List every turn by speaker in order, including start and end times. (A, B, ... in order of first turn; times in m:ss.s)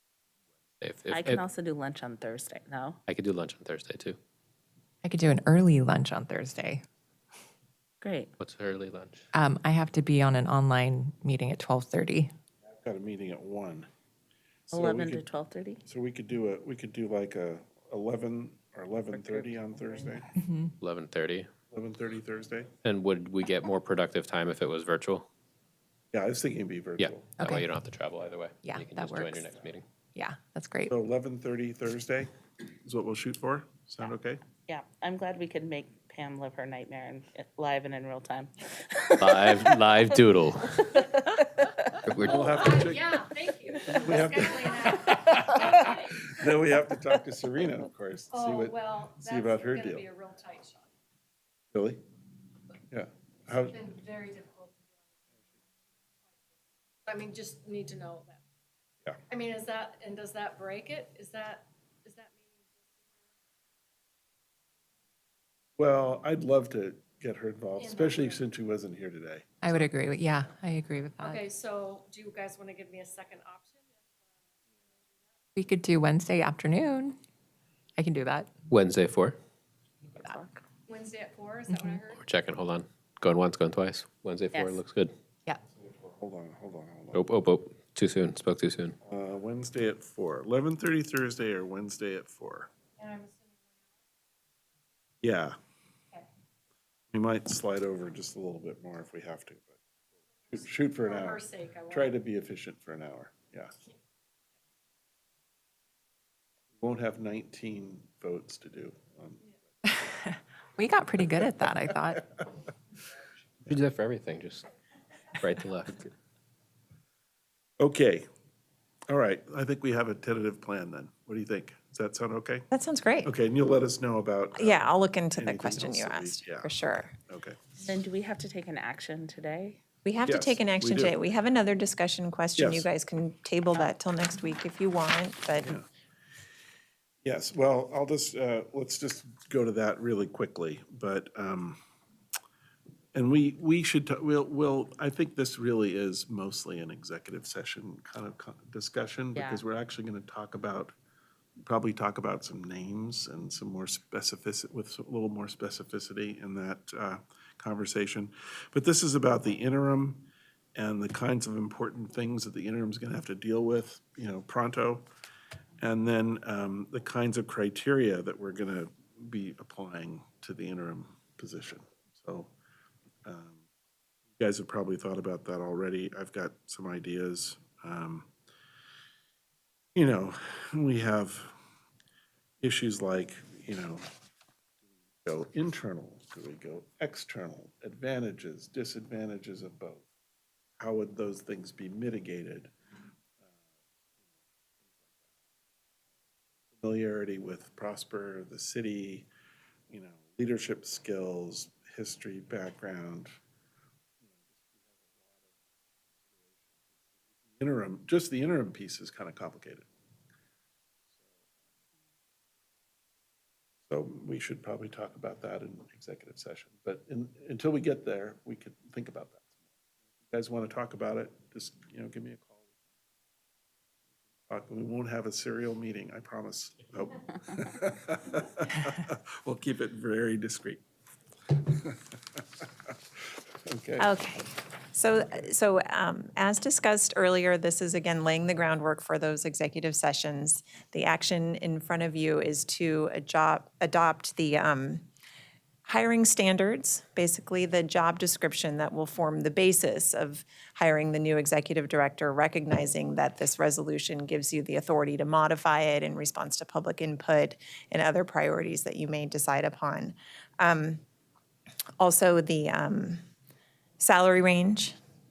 0:00.8-0:01.4 A
0:01.1-0:03.0 B
0:03.1-0:04.2 A
0:05.0-0:06.8 C
0:08.0-0:08.3 B
0:08.4-0:09.3 A
0:09.3-0:12.3 C
0:12.8-0:13.9 D
0:14.7-0:15.3 D
0:14.7-0:15.8 B
0:15.8-0:20.3 D
0:19.1-0:20.1 B
0:20.4-0:20.7 C
0:20.8-0:21.5 A
0:21.7-0:22.7 D
0:22.8-0:25.3 A
0:26.1-0:27.3 D
0:27.0-0:29.8 A
0:27.4-0:27.6 C
0:28.6-0:29.5 C
0:30.1-0:30.9 C
0:30.9-0:32.3 D
0:32.8-0:34.4 D
0:34.6-0:39.7 B
0:39.2-0:41.0 A
0:42.0-0:42.8 A
0:42.2-0:46.2 E
0:42.2-0:43.2 D
0:43.9-0:50.1 D
0:45.0-0:45.8 B
0:48.3-0:50.8 E
0:51.7-0:52.0 D
0:52.9-0:53.8 D
0:53.7-0:55.1 E
0:57.0-0:58.4 E
0:59.3-1:03.2 E
1:05.8-1:09.5 D
1:07.8-1:08.4 E
1:09.6-1:11.4 C
1:11.2-1:15.4 E
1:15.6-1:17.2 C
1:18.0-1:18.5 C
1:18.7-1:19.4 A
1:20.2-1:20.6 B
1:20.9-1:22.2 E
1:21.7-1:22.0 C
1:22.1-1:25.1 A
1:24.5-1:24.8 B
1:25.7-1:27.2 D
1:27.1-1:29.0 A
1:29.0-1:32.7 D
1:33.0-1:33.8 E
1:35.2-1:35.6 D
1:37.1-1:39.8 D
1:40.5-1:43.8 D
1:40.5-1:42.1 E
1:46.7-1:49.5 D
1:50.0-1:52.3 C
1:53.6-1:54.7 A
1:55.4-1:56.1 A
1:57.8-1:58.3 D
1:59.1-2:02.7 D
2:02.7-2:03.3 F
2:03.2-2:06.7 D
2:04.5-2:07.2 F
2:07.3-2:07.6 D
2:07.8-2:09.8 B
2:10.0-2:15.8 F
2:10.2-2:11.2 D
2:12.6-2:12.9 D
2:17.2-2:21.8 D
2:23.1-2:30.9 D
2:29.3-2:29.6 B
2:31.6-2:45.0 D
2:45.8-2:52.5 D
2:53.2-2:53.6 D
2:54.4-2:58.3 D
2:59.9-3:01.6 D
3:02.6-3:04.1 D
3:05.2-3:10.1 D
3:10.8-3:12.7 D
3:14.8-3:15.3 D
3:16.7-3:19.3 D
3:19.9-3:23.3 D
3:24.2-3:25.5 D
3:26.2-3:29.9 D
3:33.9-3:39.6 D
3:40.3-3:42.8 D
3:44.5-3:50.8 D
3:51.6-3:52.9 D
3:53.6-3:54.1 D
3:54.0-4:05.0 F
4:05.8-4:21.0 F
4:22.0-4:23.2 F
4:24.0-4:25.0 F